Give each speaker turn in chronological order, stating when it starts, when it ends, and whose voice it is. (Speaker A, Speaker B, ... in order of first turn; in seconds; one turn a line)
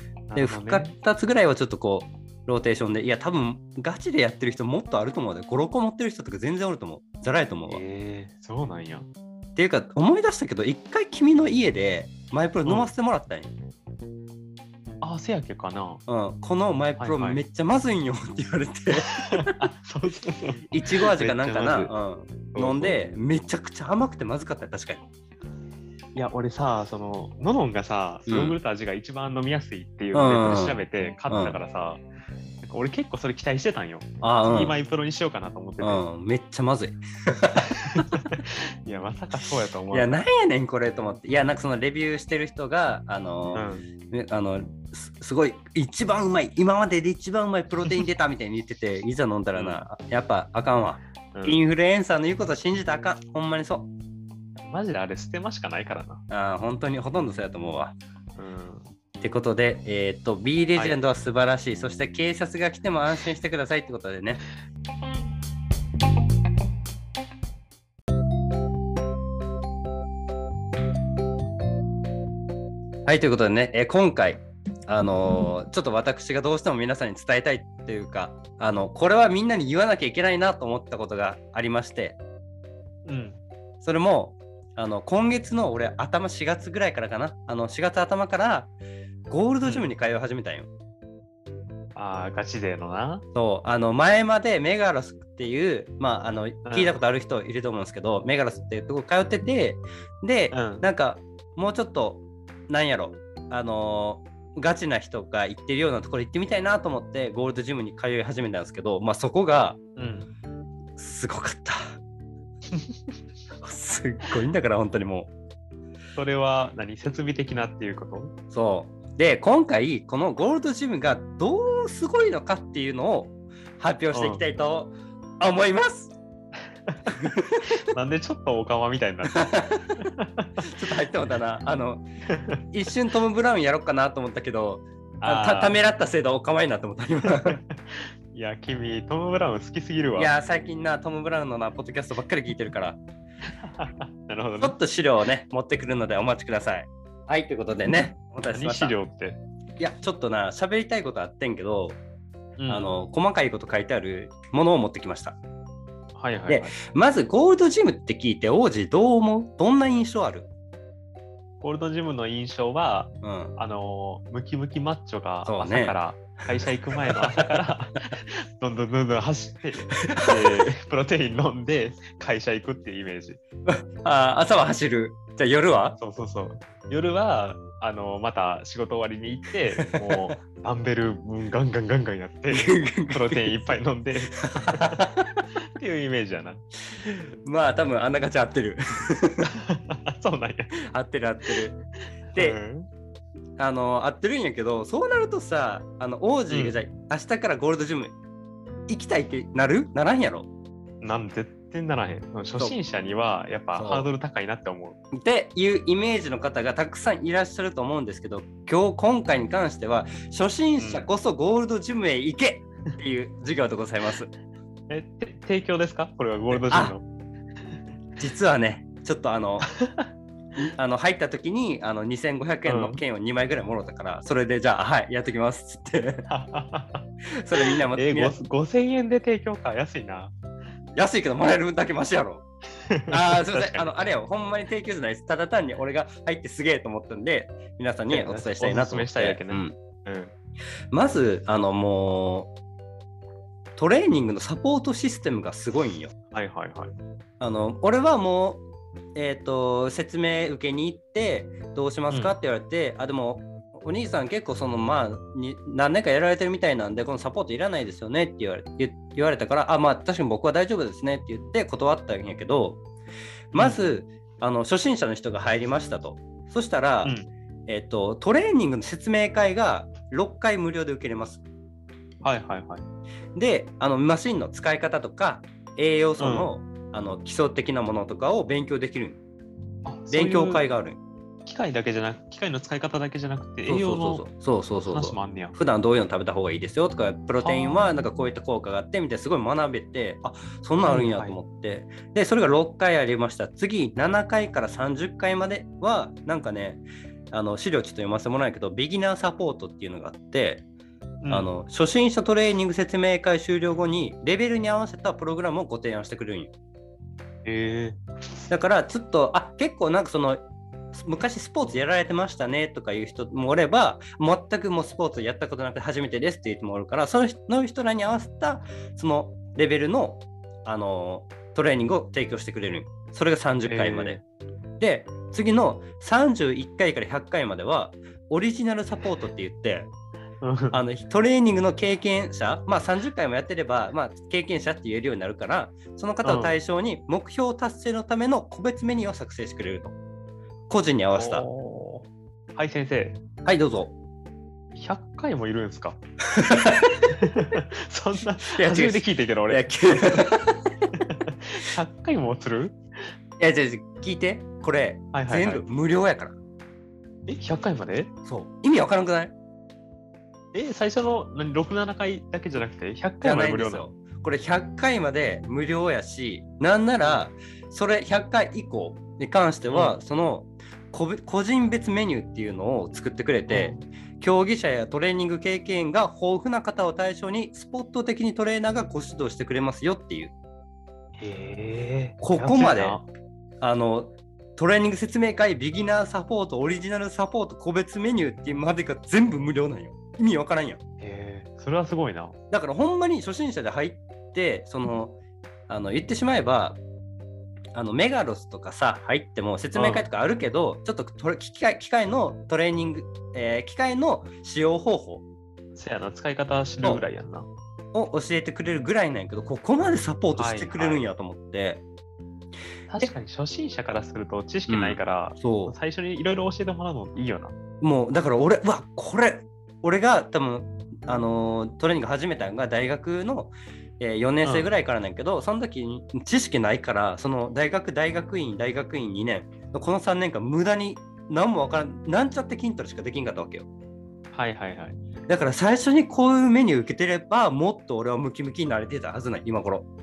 Speaker A: 0.3-0.9
Speaker B: 0.4-7.8
Speaker A: 7.7-9.1
Speaker B: 9.6-13.5
Speaker A: 12.7-12.9
Speaker A: 15.0-16.0
Speaker B: 16.1-19.5
Speaker A: 17.0-17.4
Speaker A: 19.1-21.9
Speaker B: 20.7-25.0
Speaker A: 22.5-23.0
Speaker A: 26.1-32.0
Speaker B: 28.3-28.6
Speaker B: 30.1-30.8
Speaker B: 31.3-31.6
Speaker A: 32.6-36.0
Speaker B: 34.2-34.8
Speaker B: 35.8-38.1
Speaker A: 37.6-40.2
Speaker B: 39.9-53.9
Speaker A: 43.5-43.9
Speaker A: 49.5-49.8
Speaker A: 51.3-51.6
Speaker A: 54.6-56.2
Speaker B: 56.3-57.9
Speaker A: 58.4-58.9
Speaker B: 59.2-64.4
Speaker B: 73.0-82.2
Speaker A: 83.0-83.4
Speaker B: 83.8-88.7
Speaker B: 89.3-90.7
Speaker A: 89.6-89.9
Speaker A: 91.9-93.2
Speaker B: 93.3-109.8
Speaker A: 96.7-97.0
Speaker A: 100.5-100.9
Speaker A: 110.0-110.3
Speaker B: 111.0-112.0
Speaker B: 113.6-115.3
Speaker A: 116.2-118.3
Speaker B: 118.5-126.1
Speaker A: 124.1-124.4
Speaker B: 127.2-127.6
Speaker A: 127.7-130.5
Speaker B: 129.3-129.8
Speaker B: 130.6-132.0
Speaker B: 132.7-137.6
Speaker A: 135.2-135.8
Speaker A: 137.5-140.3
Speaker B: 140.2-143.0
Speaker A: 143.6-144.8
Speaker B: 144.6-149.0
Speaker A: 148.5-149.4
Speaker B: 149.8-152.0
Speaker A: 152.6-152.9
Speaker B: 152.7-155.4
Speaker A: 156.2-156.8
Speaker B: 156.5-160.5
Speaker A: 161.6-173.4
Speaker B: 163.2-163.5
Speaker B: 165.4-166.0
Speaker B: 167.1-167.6
Speaker B: 170.0-170.7
Speaker B: 173.7-176.0
Speaker A: 176.0-185.0
Speaker B: 179.8-180.4
Speaker B: 182.5-183.8
Speaker B: 184.4-185.3
Speaker A: 185.8-186.6
Speaker B: 187.0-189.5
Speaker A: 189.7-190.7
Speaker B: 190.9-191.8
Speaker A: 192.3-192.9
Speaker B: 193.6-198.1
Speaker A: 196.5-196.8
Speaker B: 198.9-200.5
Speaker A: 201.0-205.0
Speaker B: 203.8-204.1
Speaker B: 205.1-214.3
Speaker A: 210.8-211.1
Speaker A: 214.9-217.0
Speaker B: 216.5-216.9
Speaker B: 218.2-219.7
Speaker B: 220.6-226.3
Speaker A: 222.7-223.0
Speaker A: 226.3-227.1
Speaker B: 227.3-228.4
Speaker A: 227.6-230.3
Speaker B: 231.0-232.4
Speaker A: 232.9-234.0
Speaker B: 233.1-239.8
Speaker A: 238.1-240.3
Speaker B: 240.9-242.5
Speaker B: 243.8-246.1
Speaker A: 246.3-246.9
Speaker B: 247.4-248.6
Speaker B: 249.2-262.8
Speaker A: 252.1-252.3
Speaker B: 263.5-267.1
Speaker A: 263.6-263.9
Speaker B: 267.7-271.4
Speaker A: 272.2-272.9
Speaker B: 273.4-279.2
Speaker A: 276.2-276.5
Speaker A: 279.9-280.6
Speaker B: 280.1-281.0
Speaker A: 281.4-284.3
Speaker B: 283.6-300.6
Speaker A: 284.9-285.6
Speaker A: 287.4-287.9
Speaker A: 290.8-291.4
Speaker A: 301.2-301.5
Speaker B: 301.3-306.5
Speaker A: 307.5-308.0
Speaker B: 308.5-310.4
Speaker B: 310.9-324.2
Speaker A: 323.6-324.2
Speaker B: 324.8-329.9
Speaker A: 330.4-330.8
Speaker B: 330.7-339.9
Speaker A: 336.2-336.5
Speaker B: 340.7-341.4
Speaker A: 341.1-343.2
Speaker B: 343.4-343.9
Speaker A: 344.8-346.0
Speaker B: 346.4-346.9
Speaker A: 347.1-350.2
Speaker B: 348.5-350.6
Speaker A: 350.9-352.8
Speaker B: 353.4-356.4
Speaker A: 355.1-355.6
Speaker A: 357.3-358.1
Speaker B: 358.2-359.3
Speaker A: 360.5-363.9
Speaker B: 363.2-380.3
Speaker A: 369.7-370.0
Speaker A: 373.5-373.8
Speaker A: 381.2-383.1
Speaker B: 382.2-383.0
Speaker B: 383.6-390.8
Speaker A: 391.0-392.4
Speaker B: 392.5-395.2
Speaker B: 395.7-396.8
Speaker B: 397.7-405.2
Speaker A: 399.8-400.1
Speaker A: 405.8-407.5
Speaker B: 407.9-411.8
Speaker A: 410.4-411.0
Speaker A: 412.9-417.5
Speaker B: 414.7-415.8
Speaker B: 417.8-433.7
Speaker A: 424.4-424.7
Speaker A: 434.3-435.0
Speaker B: 435.3-439.9